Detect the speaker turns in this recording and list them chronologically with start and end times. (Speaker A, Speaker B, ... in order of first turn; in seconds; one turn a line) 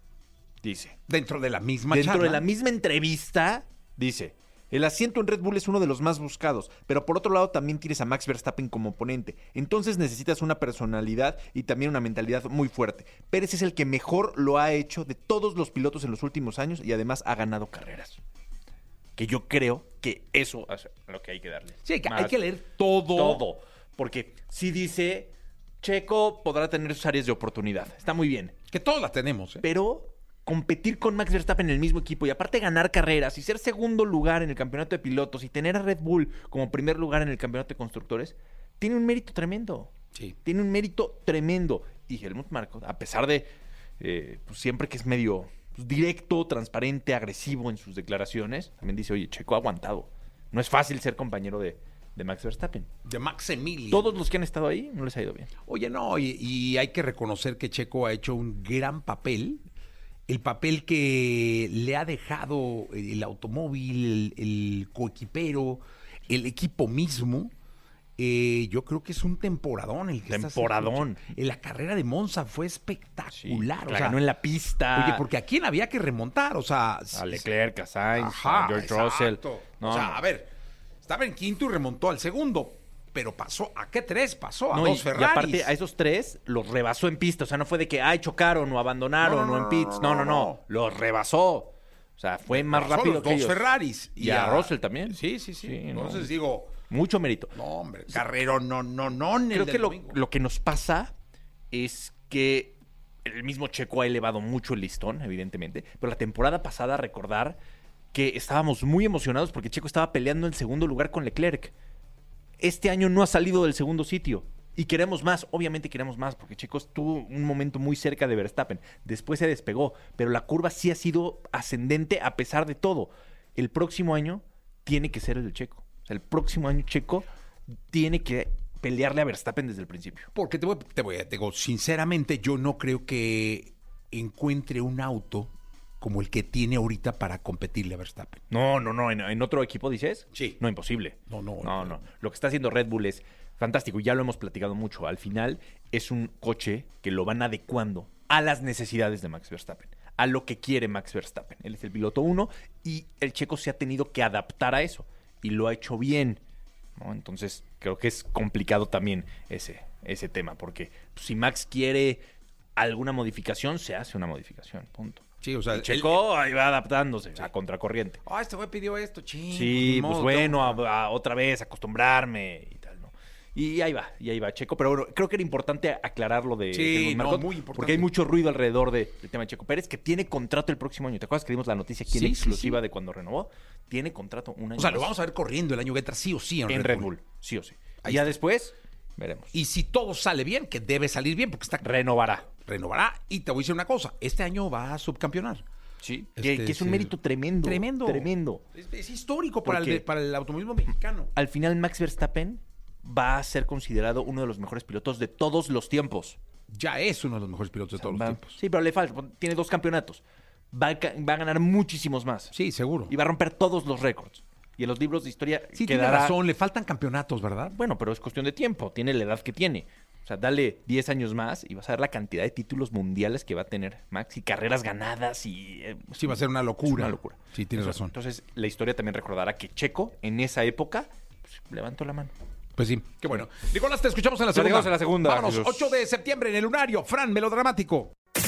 Speaker A: 0.6-1.0
Speaker B: 1.1-2.4
Speaker A: 1.9-18.2
Speaker A: 19.1-22.4
Speaker B: 21.8-23.4
Speaker A: 23.0-28.6
Speaker B: 28.7-29.6
Speaker A: 29.6-52.9
Speaker B: 53.0-54.2
Speaker A: 53.9-55.5
Speaker B: 55.6-59.6
Speaker B: 60.3-67.5
Speaker B: 68.2-74.2
Speaker A: 70.2-71.3
Speaker A: 73.3-75.2
Speaker B: 74.9-77.4
Speaker A: 77.1-80.2
Speaker B: 78.1-80.5
Speaker B: 81.0-85.7
Speaker A: 84.7-93.6
Speaker B: 89.2-90.6
Speaker B: 92.5-96.7
Speaker A: 94.2-96.3
Speaker A: 96.9-97.5
Speaker B: 97.5-100.2
Speaker A: 99.5-101.1
Speaker A: 101.7-107.6
Speaker A: 108.1-111.7
Speaker A: 112.6-127.3
Speaker A: 127.9-130.3
Speaker B: 130.3-138.4
Speaker A: 138.5-156.4
Speaker B: 141.3-142.0
Speaker A: 156.9-162.2
Speaker A: 162.8-168.2
Speaker B: 165.4-166.2
Speaker B: 168.2-170.8
Speaker A: 169.5-185.2
Speaker B: 176.7-178.1
Speaker B: 182.1-182.8
Speaker B: 184.8-187.1
Speaker A: 186.7-189.5
Speaker B: 188.0-188.4
Speaker B: 189.5-195.6
Speaker A: 191.8-192.4
Speaker A: 196.0-198.6
Speaker B: 196.3-201.3
Speaker A: 199.6-200.0
Speaker A: 201.3-206.4
Speaker B: 206.7-208.6
Speaker A: 208.0-212.5
Speaker B: 212.5-213.1
Speaker A: 213.1-216.4
Speaker B: 215.7-217.7
Speaker A: 217.7-232.3
Speaker B: 226.2-228.1
Speaker B: 232.8-238.1
Speaker A: 234.5-235.9